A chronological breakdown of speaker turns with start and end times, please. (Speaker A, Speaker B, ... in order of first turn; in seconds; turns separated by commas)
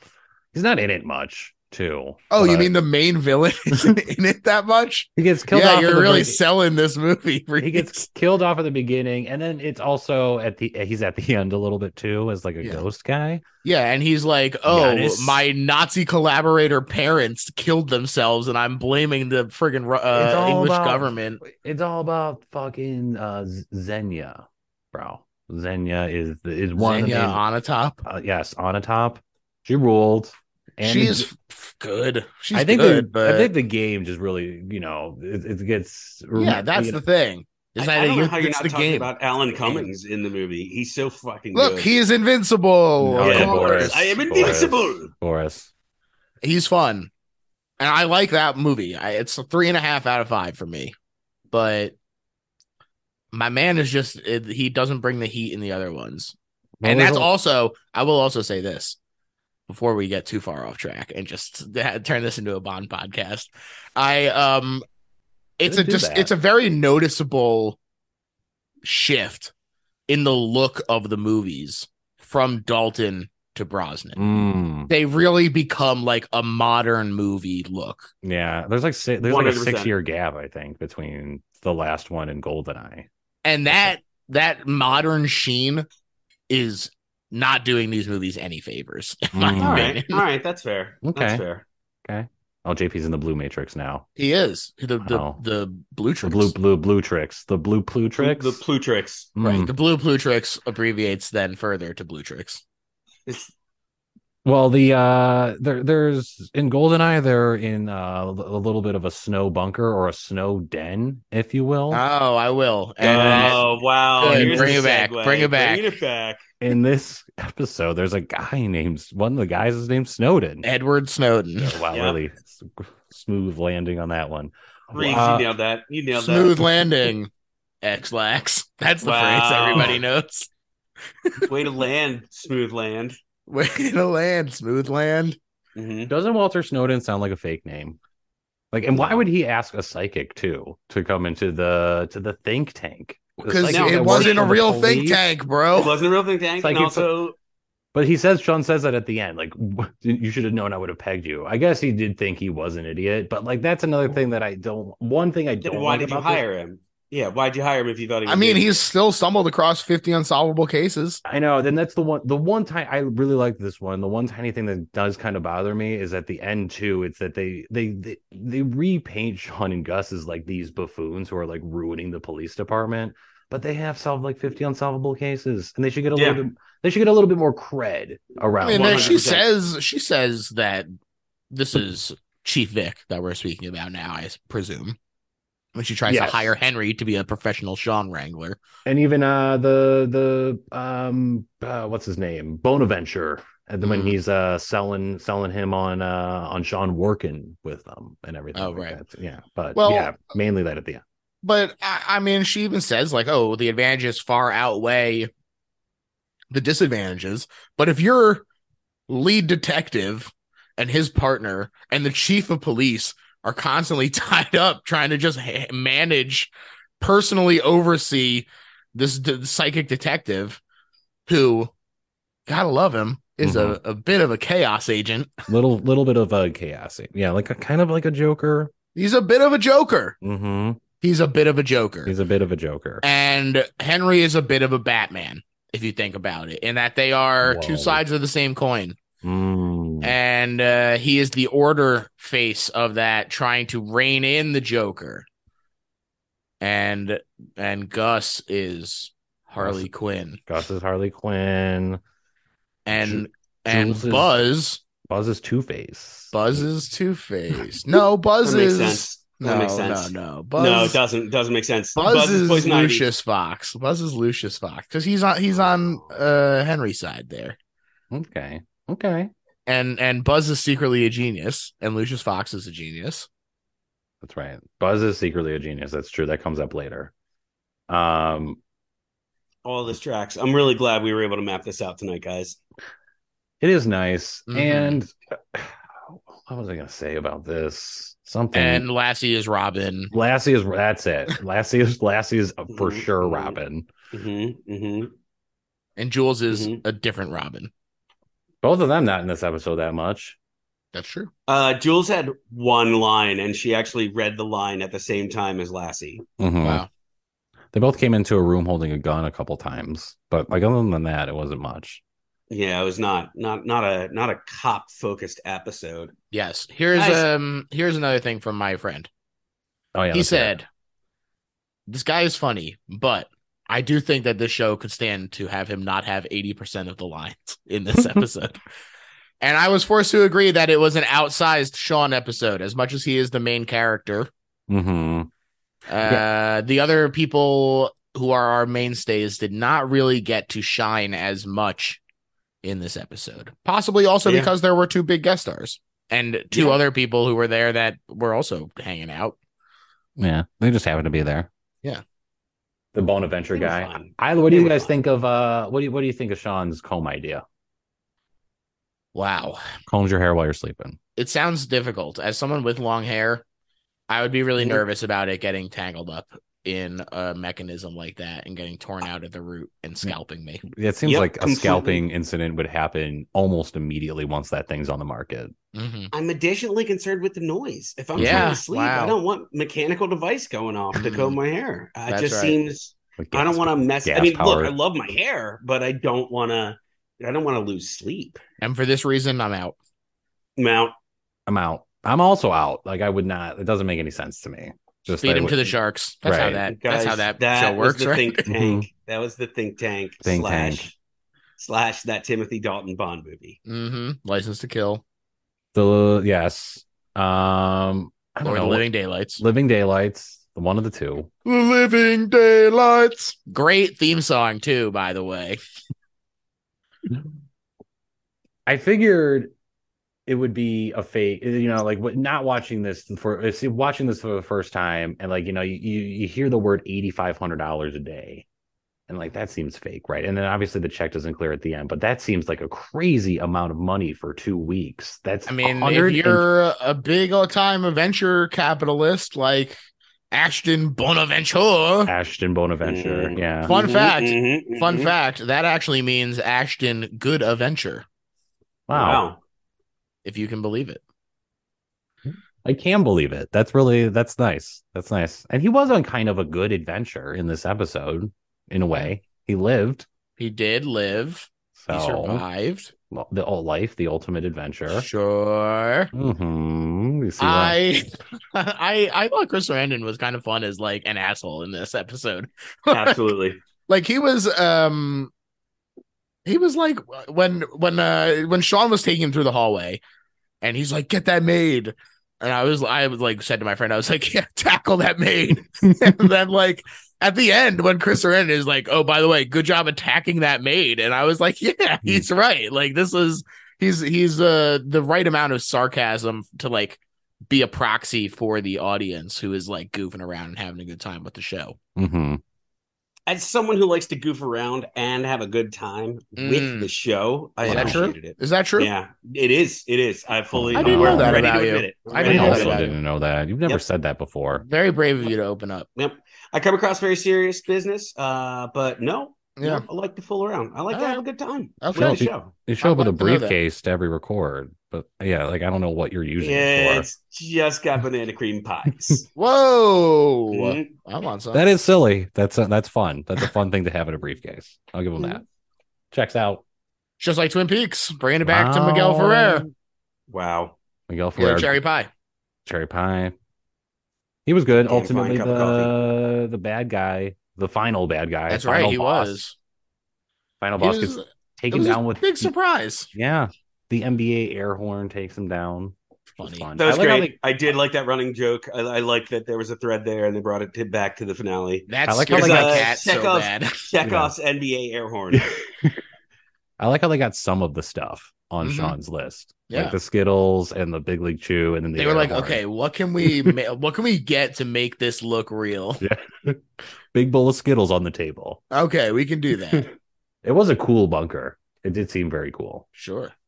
Speaker A: 0.5-2.7, Speaker B: 2.3-8.0, Speaker A: 5.2-6.4, Speaker A: 7.6-13.4, Speaker B: 13.6-21.4, Speaker A: 14.7-15.4, Speaker A: 20.1-27.4, Speaker B: 26.8-28.0, Speaker A: 28.0-31.3, Speaker B: 30.8-33.5, Speaker A: 32.5-37.0, Speaker B: 36.3-39.1, Speaker C: 37.8-41.9, Speaker B: 39.6-39.9, Speaker B: 41.5-44.2, Speaker A: 43.0-45.7, Speaker C: 43.2-45.1, Speaker B: 46.4-47.1, Speaker B: 47.8-50.9, Speaker B: 51.5-52.0, Speaker B: 53.3-59.0, Speaker A: 56.8-57.3, Speaker B: 59.7-64.8, Speaker B: 65.6-67.8, Speaker A: 65.6-66.3, Speaker B: 68.8-69.5, Speaker B: 70.1-78.1, Speaker A: 74.2-74.9, Speaker A: 78.2-83.1, Speaker C: 79.2-79.9, Speaker B: 83.4-85.8, Speaker B: 86.5-90.2, Speaker A: 89.3-89.9, Speaker C: 89.6-91.6, Speaker A: 91.0-91.4, Speaker A: 92.0-94.0, Speaker B: 94.2-96.5, Speaker A: 95.0-95.4, Speaker A: 96.2-98.6, Speaker C: 98.2-99.3, Speaker A: 99.3-99.7, Speaker B: 99.4-102.6, Speaker C: 103.3-103.5, Speaker A: 104.4-112.0, Speaker B: 111.9-116.0, Speaker A: 113.0-114.8, Speaker C: 113.0-116.4, Speaker A: 116.6-120.6, Speaker B: 120.6-121.8, Speaker A: 121.6-125.5, Speaker C: 121.9-122.2, Speaker C: 124.9-126.8, Speaker B: 126.1-127.3, Speaker B: 127.8-130.5, Speaker C: 129.0-130.0, Speaker B: 131.2-131.5, Speaker C: 131.4-133.2, Speaker B: 133.5-135.4, Speaker C: 135.7-136.1, Speaker A: 136.1-138.0, Speaker A: 138.7-145.2, Speaker B: 143.4-145.9, Speaker C: 143.7-144.6, Speaker C: 145.7-147.3, Speaker A: 146.6-147.1, Speaker A: 147.9-156.4, Speaker C: 155.6-158.8, Speaker B: 158.2-161.2, Speaker A: 161.2-179.2, Speaker C: 176.1-176.4, Speaker B: 178.6-180.9, Speaker C: 178.6-179.4, Speaker B: 181.5-185.0, Speaker B: 185.7-188.6, Speaker A: 186.1-186.5, Speaker A: 188.8-201.0, Speaker B: 193.8-194.1, Speaker B: 198.5-199.0, Speaker B: 199.8-200.1, Speaker B: 201.4-205.3, Speaker B: 206.5-208.4, Speaker B: 209.1-220.6, Speaker B: 221.3-221.7, Speaker B: 222.5-225.4, Speaker A: 223.4-223.8, Speaker A: 225.5-228.7, Speaker B: 228.9-230.2, Speaker A: 230.2-230.8, Speaker B: 231.0-232.1, Speaker A: 232.1-233.0, Speaker B: 233.0-239.0, Speaker A: 237.4-238.0, Speaker A: 239.2-240.1, Speaker B: 240.0-245.2, Speaker B: 246.6-250.4, Speaker A: 249.6-249.9, Speaker A: 250.5-252.0, Speaker B: 252.8-254.8, Speaker A: 252.9-254.4, Speaker A: 255.1-256.6, Speaker B: 256.3-261.0, Speaker C: 258.4-263.1, Speaker B: 261.9-267.6, Speaker C: 265.6-266.1, Speaker A: 268.1-269.3, Speaker B: 269.6-273.3, Speaker A: 274.2-277.1, Speaker A: 277.9-278.6, Speaker C: 279.6-282.6, Speaker A: 283.6-288.9, Speaker B: 284.5-285.0, Speaker B: 288.5-290.1, Speaker A: 290.1-293.9, Speaker C: 292.7-293.6, Speaker C: 294.1-295.1, Speaker B: 296.0-297.7, Speaker C: 296.5-296.8, Speaker A: 298.6-300.4, Speaker B: 300.9-301.3, Speaker C: 301.5-306.2, Speaker A: 306.4-306.8, Speaker B: 306.6-306.9, Speaker A: 307.7-312.0, Speaker C: 312.5-316.1, Speaker B: 316.3-319.1, Speaker C: 316.9-317.2, Speaker A: 319.9-320.6, Speaker B: 320.1-320.6, Speaker B: 321.9-328.6, Speaker B: 329.4-334.3, Speaker A: 334.7-335.3, Speaker B: 335.9-342.0, Speaker B: 342.6-349.4, Speaker C: 344.2-344.5, Speaker A: 350.2-351.5, Speaker A: 352.9-357.4, Speaker C: 353.5-354.9, Speaker B: 359.1-359.7, Speaker A: 359.9-361.0, Speaker B: 361.1-363.4, Speaker B: 364.1-370.6, Speaker A: 370.7-375.5, Speaker C: 371.0-372.0, Speaker B: 375.7-376.1, Speaker C: 376.1-388.4, Speaker A: 378.1-378.5, Speaker B: 378.1-379.1, Speaker B: 380.9-381.4, Speaker B: 382.1-382.6, Speaker A: 383.2-384.7, Speaker B: 388.6-389.8, Speaker C: 390.6-390.9, Speaker A: 391.5-396.6, Speaker B: 395.2-398.4, Speaker C: 396.7-400.9, Speaker A: 398.5-398.9, Speaker A: 400.2-400.9, Speaker C: 401.6-403.6, Speaker B: 403.6-405.0, Speaker A: 405.7-408.8, Speaker B: 408.4-409.4, Speaker A: 409.4-411.3, Speaker B: 411.4-415.6, Speaker A: 418.6-419.5, Speaker A: 420.3-428.4, Speaker A: 429.1-436.5, Speaker B: 435.5-439.8, Speaker B: 440.3-442.1, Speaker A: 442.1-443.8, Speaker C: 442.8-445.1, Speaker B: 443.6-448.1, Speaker A: 448.9-449.2, Speaker C: 448.9-449.4, Speaker B: 450.2-451.0, Speaker A: 452.3-460.1, Speaker B: 460.4-462.9, Speaker A: 461.7-462.4, Speaker A: 463.1-465.1, Speaker B: 464.9-466.1, Speaker A: 466.1-467.8, Speaker B: 467.4-473.2, Speaker C: 472.9-473.6, Speaker B: 473.9-475.3, Speaker B: 476.4-480.0, Speaker B: 480.6-501.8, Speaker A: 501.9-502.4, Speaker C: 503.3-512.8, Speaker B: 506.4-506.9, Speaker A: 507.6-508.1, Speaker B: 507.6-508.9, Speaker A: 510.5-511.5, Speaker B: 510.7-513.0, Speaker A: 512.1-514.6, Speaker B: 514.6-515.9, Speaker C: 516.0-522.5, Speaker B: 519.6-519.9, Speaker B: 520.9-521.2, Speaker B: 521.8-522.3, Speaker A: 521.9-527.1, Speaker B: 522.8-523.5, Speaker C: 526.4-529.3, Speaker B: 529.3-531.6, Speaker C: 530.5-530.9, Speaker A: 531.5-535.4, Speaker A: 536.1-536.6, Speaker B: 537.2-539.7, Speaker A: 538.4-539.7, Speaker C: 540.3-540.8, Speaker A: 541.1-541.8, Speaker B: 541.4-542.1, Speaker A: 542.6-543.3, Speaker A: 544.5-549.4, Speaker C: 544.9-545.9, Speaker B: 548.5-549.5, Speaker A: 550.6-552.5, Speaker B: 550.8-553.1, Speaker A: 553.1-557.3, Speaker B: 556.4-556.7, Speaker C: 556.8-565.5, Speaker B: 561.9-563.9, Speaker A: 562.0-562.9, Speaker A: 564.0-564.3, Speaker A: 565.3-566.0, Speaker A: 566.8-572.6, Speaker B: 568.6-569.0, Speaker B: 569.7-570.0, Speaker B: 572.0-576.0, Speaker A: 573.2-573.5, Speaker A: 576.0-576.6, Speaker A: 577.1-578.6, Speaker B: 578.7-579.9, Speaker A: 580.4-582.9, Speaker B: 582.9-583.3